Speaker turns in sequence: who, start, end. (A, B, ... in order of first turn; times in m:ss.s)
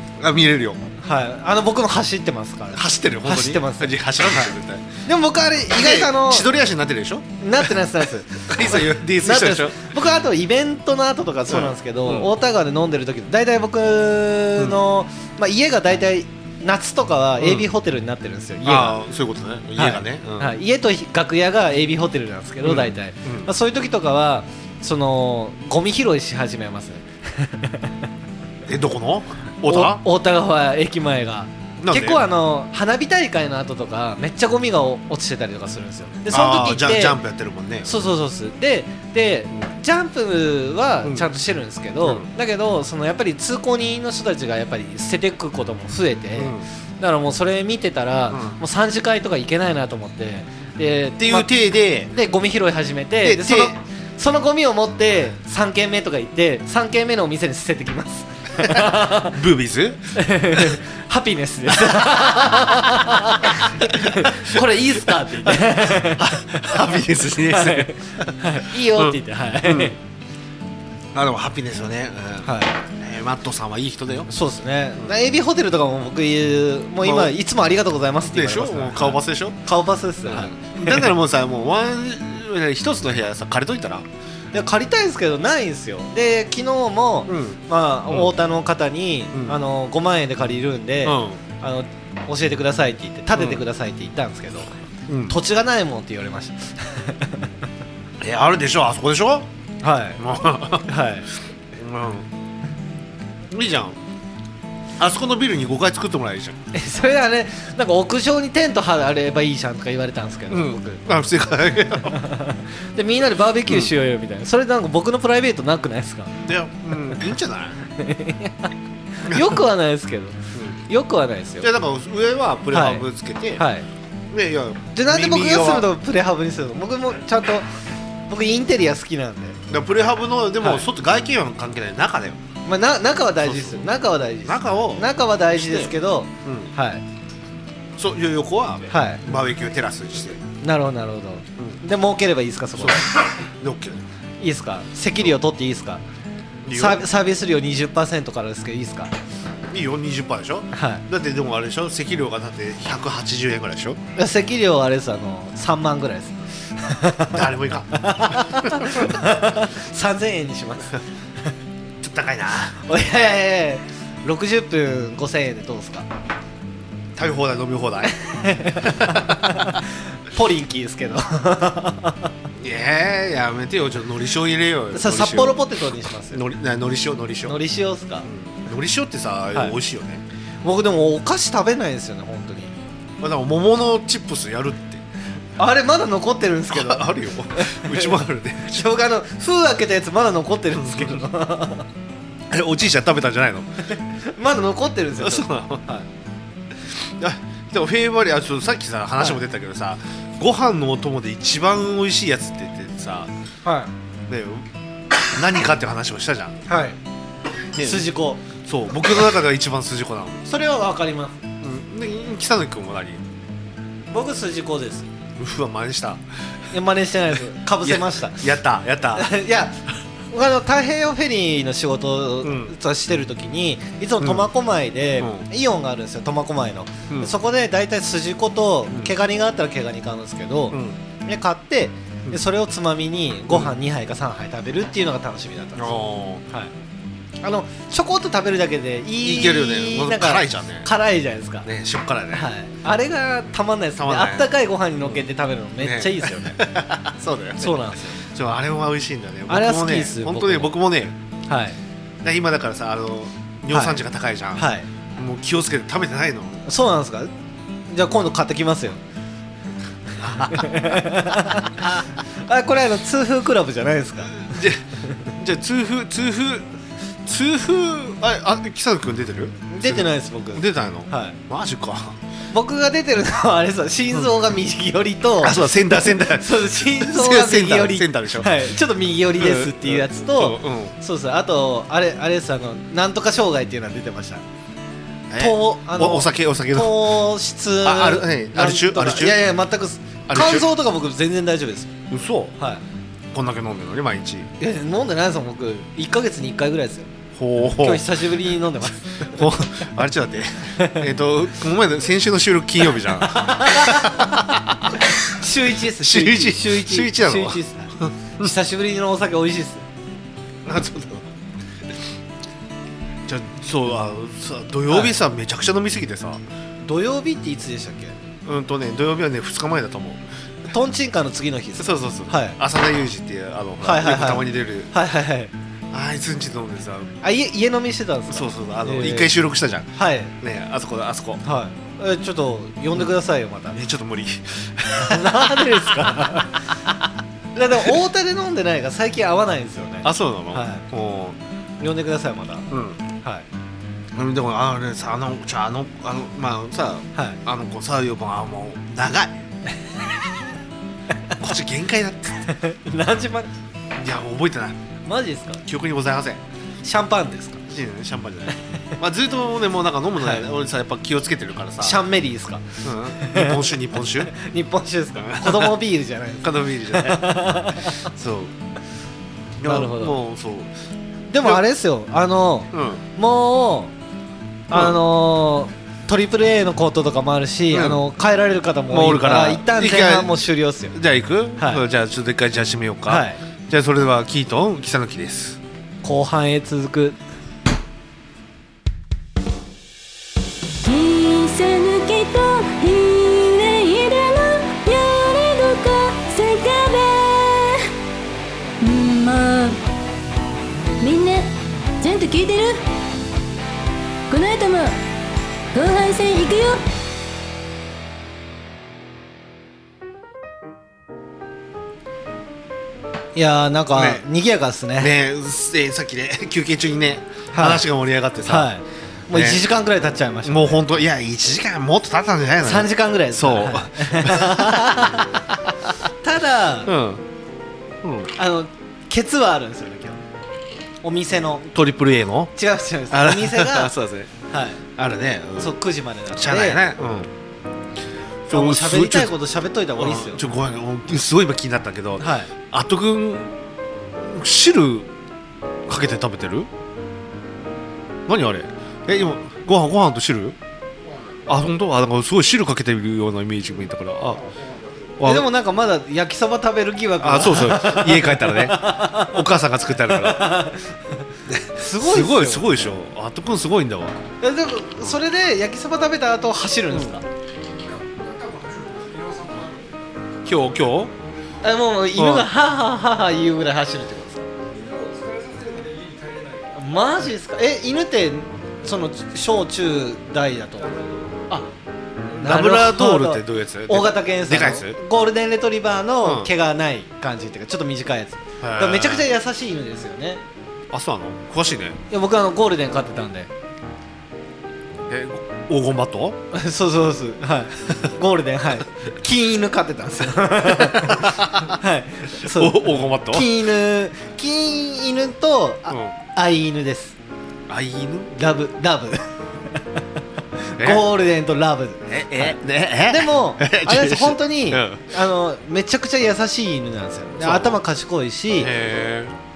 0:00.2-0:00.9 A
0:01.0-0:04.5 B
0:02.7-0:04.9 A
0:05.1-0:06.5 B
0:05.7-0:07.7 A
0:07.4-0:19.0 B
0:08.4-0:09.9 A
0:11.5-0:12.3 A
0:17.4-0:17.7 A
0:18.6-0:20.6 A
0:19.8-0:28.0 B
0:22.6-0:23.5 A
0:28.7-0:30.0 A
0:29.6-0:37.2 B
0:31.8-0:32.2 A
0:36.3-0:38.0 A
0:37.8-0:51.5 B
0:42.0-0:42.3 A
0:46.4-0:46.6 A
0:48.3-0:48.6 A
0:51.2-0:52.1 A
0:52.1-0:59.4 B
0:53.2-0:53.8 A
0:58.6-1:00.8 A
1:00.2-1:06.8 B
1:03.8-1:04.6 A
1:05.5-1:08.3 A
1:07.4-1:10.0 B
1:08.9-1:10.0 A
1:11.1-1:14.3 A
1:12.4-1:12.8 B
1:14.3-1:21.1 B
1:17.0-1:17.3 A
1:18.3-1:19.6 A
1:20.2-1:24.1 A
1:24.5-1:34.7 B
1:27.3-1:28.3 A
1:29.3-1:29.6 A
1:31.0-1:31.4 A
1:33.4-1:33.6 A
1:35.1-1:35.4 A
1:35.3-1:37.5 B
1:38.2-1:39.5 A
1:39.8-1:40.2 B
1:40.2-1:40.9 A
1:40.9-1:41.3 B
1:41.7-1:42.3 A
1:43.5-1:44.0 A
1:45.0-1:46.6 A
1:46.7-1:51.0 B
1:50.5-1:52.2 A
1:52.1-1:56.4 B
1:56.4-1:57.8 A
1:58.0-2:01.7 B
1:59.3-1:59.6 A
2:00.5-2:00.8 A
2:01.6-2:03.6 A
2:02.7-2:03.9 B
2:04.3-2:05.9 A
2:04.9-2:07.7 B
2:08.3-2:09.6 B
2:09.7-2:12.4 A
2:10.6-2:10.9 B
2:12.6-2:17.0 B
2:13.4-2:13.9 A
2:14.4-2:16.7 A
2:18.0-2:20.4 A
2:18.9-2:19.2 B
2:20.6-2:23.2 B
2:21.6-2:21.8 A
2:22.8-2:24.0 A
2:24.4-2:26.0 B
2:26.6-2:27.0 A
2:26.7-2:29.1 B
2:29.7-2:34.0 A
2:30.7-2:31.0 B
2:34.2-2:41.0 B
2:37.3-2:39.2 A
2:42.0-2:42.8 A
2:42.8-2:46.1 B
2:47.2-2:48.2 A
2:48.1-2:52.3 B
2:48.7-2:49.4 A
2:52.6-2:55.6 A
2:54.9-2:56.4 B
2:56.3-2:57.6 A
2:57.5-2:58.3 B
2:58.2-3:00.2 A
3:00.6-3:02.7 B
3:03.2-3:05.0 A
3:05.6-3:11.9 B
3:06.7-3:08.9 A
3:10.8-3:11.2 A
3:12.5-3:13.9 A
3:14.0-3:16.1 B
3:15.2-3:15.9 A
3:16.9-3:23.3 A
3:23.6-3:23.9 B
3:24.3-3:24.7 A
3:25.3-3:26.6 A
3:26.7-3:27.0 B
3:27.7-3:28.1 A
3:27.8-3:28.4 B
3:28.6-3:30.5 A
3:30.5-3:31.4 B
3:31.6-3:33.2 A
3:34.1-3:35.1 B
3:35.4-3:36.2 A
3:36.7-3:38.5 B
3:37.8-3:39.3 A
3:39.2-3:56.0 B
3:42.4-3:42.7 A
3:44.2-3:44.5 A
3:45.2-3:45.4 A
3:50.7-3:51.0 A
3:55.8-3:56.4 A
3:57.4-4:01.7 B
3:59.2-4:00.9 A
4:01.6-4:02.5 A
4:02.3-4:06.6 B
4:04.0-4:04.5 A
4:05.8-4:11.2 A
4:07.6-4:08.2 B
4:09.5-4:10.8 B
4:11.5-4:11.8 B
4:12.2-4:16.6 A
4:13.7-4:14.0 B
4:14.6-4:14.9 B
4:16.7-4:17.3 B
4:17.9-4:19.0 B
4:20.2-4:21.0 A
4:20.4-4:24.5 B
4:24.3-4:26.7 A
4:27.2-4:32.2 A
4:29.7-4:31.4 B
4:32.5-4:44.4 B
4:35.4-4:38.7 A
4:39.4-4:41.0 A
4:45.3-4:47.2 A
4:45.4-4:52.0 B
4:47.8-4:49.4 A
4:50.3-4:50.7 A
4:52.1-4:52.5 A
4:53.3-4:54.5 A
4:54.6-4:57.1 B
4:57.4-4:58.1 A
4:57.8-4:59.4 B
4:59.2-5:05.0 A
5:03.4-5:04.2 B
5:05.3-5:09.8 B
5:05.9-5:08.5 A
5:10.6-5:11.3 A
5:13.3-5:16.4 A
5:14.9-5:15.1 B
5:16.8-5:18.2 B
5:18.4-5:20.2 A
5:20.7-5:22.6 B
5:21.8-5:24.9 A
5:23.8-5:25.5 B
5:25.9-5:27.2 A
5:27.2-5:29.4 B
5:28.3-5:31.4 A
5:29.9-5:30.3 B
5:31.4-5:33.8 B
5:33.7-5:35.9 A
5:35.0-5:36.6 B
5:37.6-5:40.8 B
5:40.0-5:41.4 A
5:41.8-5:42.7 B
5:42.7-5:43.0 A
5:44.1-5:49.4 A
5:51.4-5:52.5 A
5:52.5-5:53.5 B
5:54.0-5:54.8 A
5:55.0-5:55.6 B
5:55.6-5:56.4 A
5:56.8-5:57.6 B
5:57.7-6:02.0 A
6:01.8-6:03.7 B
6:02.8-6:04.3 A
6:04.2-6:08.0 B
6:05.2-6:05.8 A
6:06.4-6:08.5 A
6:09.6-6:10.7 A
6:09.6-6:10.2 B
6:11.3-6:13.9 B
6:12.7-6:13.0 A
6:14.7-6:21.0 B
6:14.7-6:15.0 A
6:17.7-6:18.0 A
6:18.9-6:20.4 A
6:20.9-6:25.6 A
6:21.6-6:21.8 B
6:23.1-6:23.4 B
6:26.0-6:27.2 B
6:30.8-6:37.9 C
6:38.8-6:39.8 C
6:41.0-6:42.8 C
6:44.3-6:45.0 C
6:45.7-6:46.8 C
6:53.4-6:55.1 B
6:53.9-6:54.2 A
6:55.0-6:58.7 A
6:57.5-6:57.8 B
6:58.4-7:00.8 B
6:59.3-6:59.6 A
7:00.4-7:05.7 A
7:02.6-7:05.3 B
7:06.2-7:06.9 B
7:06.8-7:07.2 A
7:08.0-7:08.3 A
7:08.4-7:10.2 B
7:11.0-7:11.7 B
7:11.7-7:12.5 A
7:12.6-7:13.9 B
7:13.1-7:14.3 A
7:14.5-7:14.8 B
7:15.0-7:15.8 A
7:15.6-7:16.8 B
7:16.3-7:17.3 A
7:18.5-7:19.3 A
7:18.5-7:20.4 B
7:20.0-7:23.6 A
7:22.2-7:22.5 B
7:24.2-7:25.1 A
7:25.9-7:26.7 A
7:28.3-7:30.6 A
7:31.5-7:34.5 A
7:35.2-7:35.5 A
7:35.2-7:39.4 B
7:37.2-7:40.6 A
7:40.1-7:41.0 B
7:41.5-7:44.2 A
7:41.8-7:42.9 B
7:44.4-7:47.2 B
7:50.4-7:51.1 A
7:51.6-7:54.5 B
7:52.2-7:52.5 A
7:56.7-8:01.7 B
8:02.3-8:10.4 B
8:02.4-8:05.0 A
8:06.2-8:06.5 A
8:08.6-8:09.3 A
8:10.9-8:12.0 A
8:12.1-8:13.5 B
8:15.1-8:16.4 A
8:16.5-8:27.2 B
8:20.7-8:21.8 A
8:22.4-8:23.5 A
8:25.9-8:26.1 A
8:27.7-8:28.4 A
8:28.3-8:30.0 B
8:30.6-8:32.6 B
8:30.8-8:31.1 A
8:32.1-8:35.0 A
8:33.1-8:38.7 B
8:37.4-8:37.8 A
8:38.6-8:39.3 A